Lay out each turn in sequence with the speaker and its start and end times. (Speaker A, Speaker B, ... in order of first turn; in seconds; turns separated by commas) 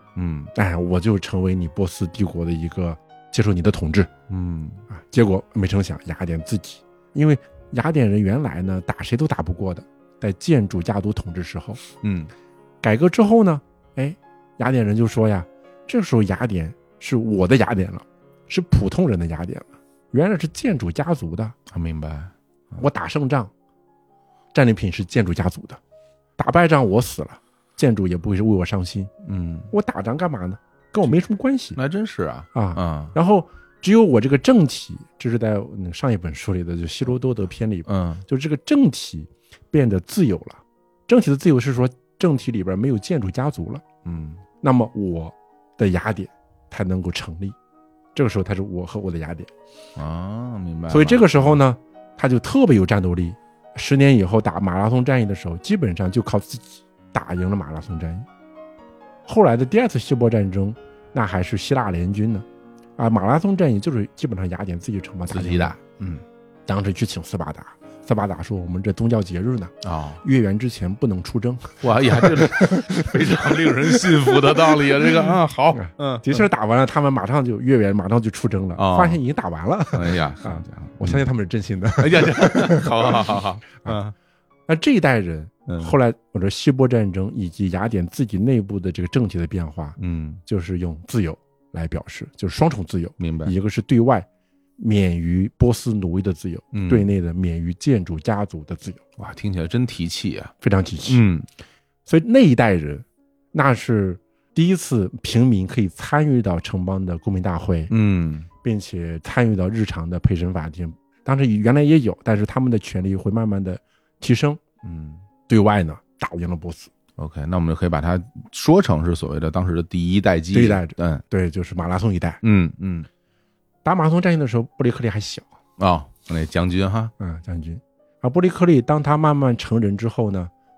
Speaker A: 0.2-0.5, Speaker B: 0.6-4.1, Speaker A: 4.3-4.8, Speaker B: 4.9-11.8, Speaker A: 12.0-12.3, Speaker B: 12.8-21.6, Speaker A: 21.7-22.8, Speaker B: 22.8-23.5, Speaker B: 24.5-25.8, Speaker B: 26.4-29.1, Speaker A: 29.2-29.7, Speaker B: 29.7-31.8, Speaker A: 31.8-33.1, Speaker B: 32.5-43.8, Speaker A: 37.9-38.2, Speaker A: 44.0-44.4, Speaker B: 44.6-47.6, Speaker B: 48.1-49.5, Speaker A: 50.0-51.6, Speaker B: 50.9-58.3, Speaker B: 59.3-62.5, Speaker B: 63.0-65.8, Speaker A: 65.3-66.2, Speaker B: 66.7-84.0, Speaker A: 69.8-70.2, Speaker A: 71.8-76.4, Speaker A: 78.8-79.2, Speaker A: 79.9-81.2, Speaker A: 82.0-84.1, Speaker B: 84.7-94.3, Speaker A: 85.7-86.0, Speaker A: 90.0-90.4, Speaker A: 93.2-93.5, Speaker B: 94.8-99.3, Speaker A: 96.7-97.1, Speaker A: 99.2-100.5, Speaker B: 100.6-101.2, Speaker A: 101.1-101.5, Speaker B: 102.1-107.9, Speaker A: 107.9-108.5, Speaker B: 108.6-114.6, Speaker A: 114.8-115.2, Speaker B: 115.5-116.9, Speaker A: 117.2-121.2, Speaker B: 120.5-122.4, Speaker A: 122.4-123.1, Speaker B: 123.8-125.5, Speaker A: 125.8-127.1, Speaker B: 127.2-130.5